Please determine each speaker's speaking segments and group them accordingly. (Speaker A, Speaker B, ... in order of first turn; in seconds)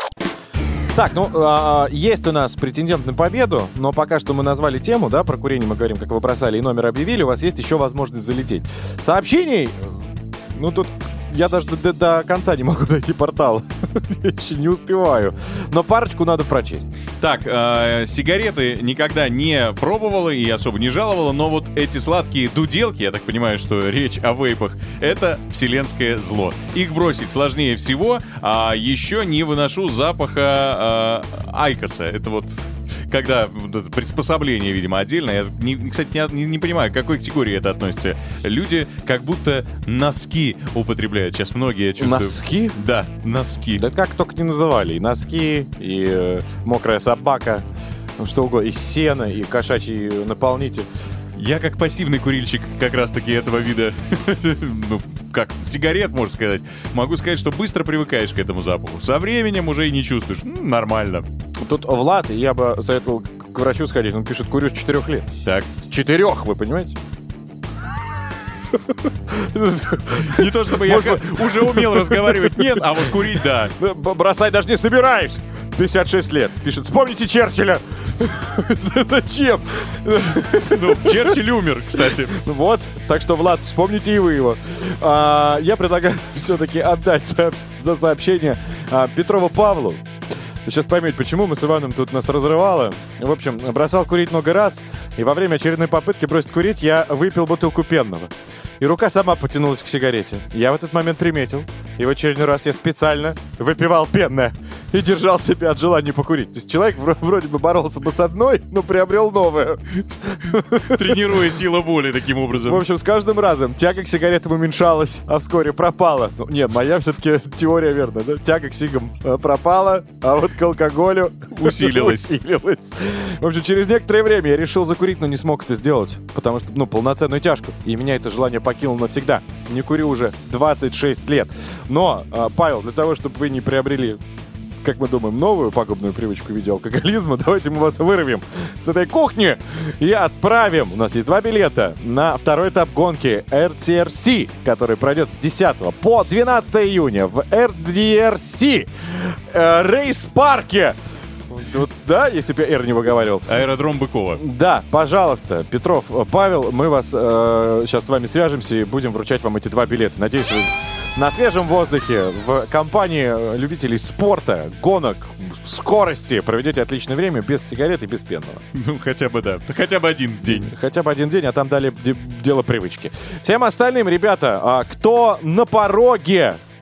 Speaker A: 0.9-10.0, 10.5-16.9, 42.0-42.8, 43.8-47.6, 48.2-50.9, 61.6-65.3, 65.8-67.0, 68.7-81.4, 81.9-90.0, 90.6-111.2, 112.7-134.2, 134.8-151.0, 151.5-153.5, 154.4-168.6, 170.4-176.6
Speaker B: 17.2-43.8, 51.4-61.2, 70.1-73.7, 80.5-82.3, 110.7-112.8, 121.5-122.3, 153.5-154.4, 168.7-170.7